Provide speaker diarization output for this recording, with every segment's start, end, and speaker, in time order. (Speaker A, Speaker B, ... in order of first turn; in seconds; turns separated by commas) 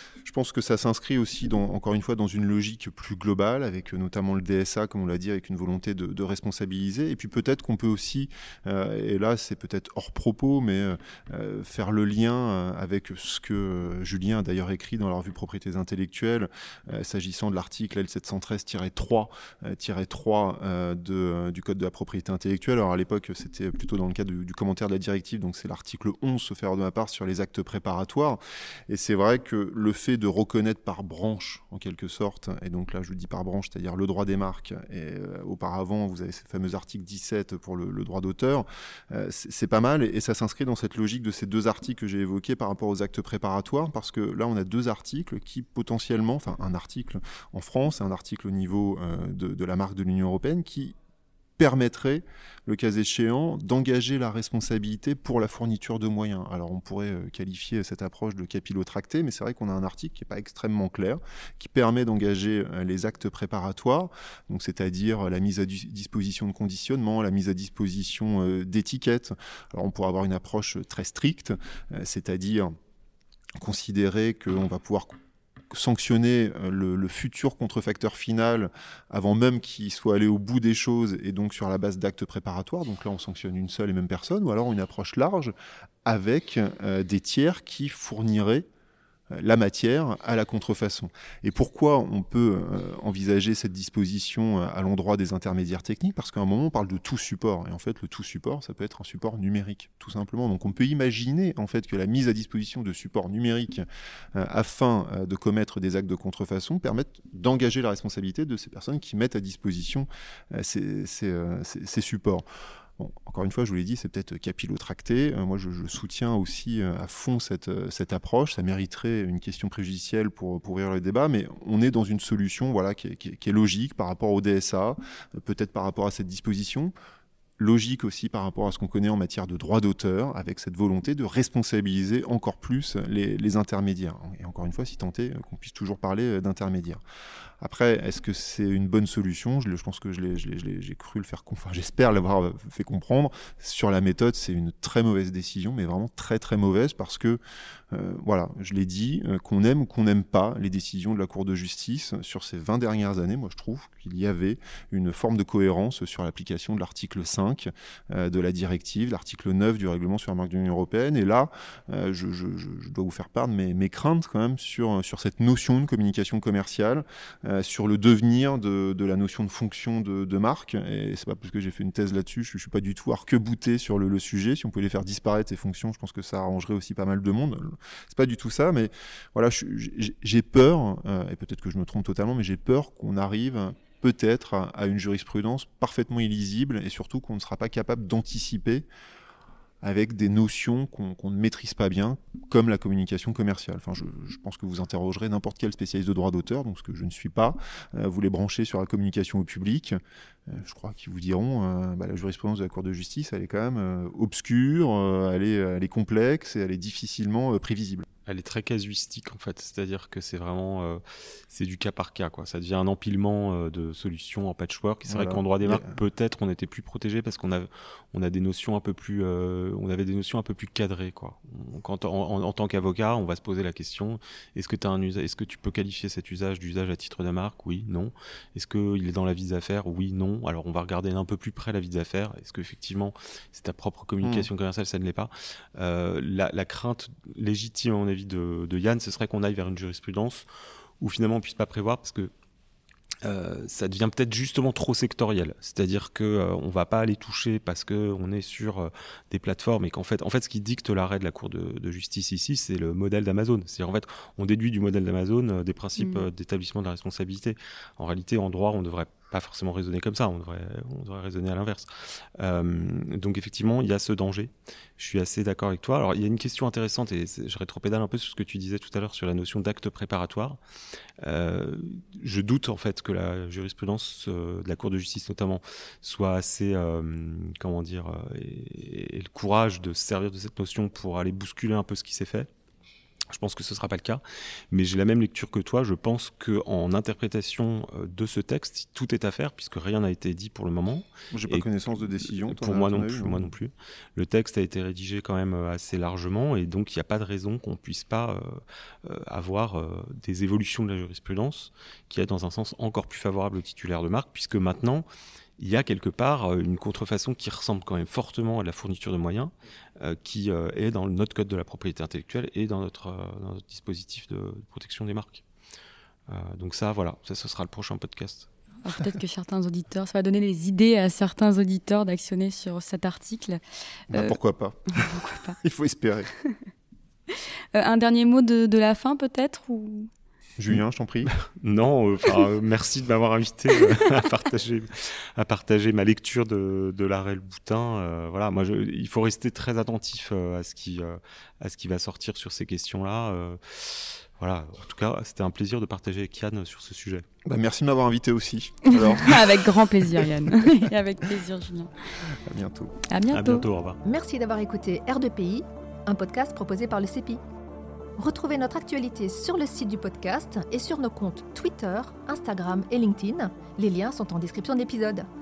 Speaker A: 0.2-50.9, Speaker A: 51.6-72.7, Speaker A: 73.6-75.1, Speaker A: 75.7-85.5, Speaker A: 86.0-88.7, Speaker A: 89.3-112.4, Speaker A: 113.0-126.9, Speaker A: 127.6-137.0, Speaker A: 137.6-147.4, Speaker A: 147.9-188.9, Speaker A: 189.8-208.1, Speaker B: 208.2-240.4, Speaker A: 215.1-215.9, Speaker A: 234.2-234.5, Speaker B: 241.0-242.3, Speaker B: 243.2-270.6, Speaker C: 256.0-256.3, Speaker B: 271.2-282.5, Speaker B: 283.3-305.1, Speaker A: 291.3-293.5, Speaker B: 305.6-315.4, Speaker B: 316.3-318.5, Speaker C: 318.8-323.6, Speaker A: 324.1-326.3, Speaker C: 325.0-325.6, Speaker C: 327.7-330.1, Speaker A: 330.6-331.3, Speaker B: 331.2-347.2, Speaker A: 347.4-350.5, Speaker C: 348.9-351.9, Speaker A: 352.2-353.0, Speaker C: 353.1-353.7, Speaker B: 353.3-354.0, Speaker D: 354.0-357.4, Speaker D: 358.2-365.3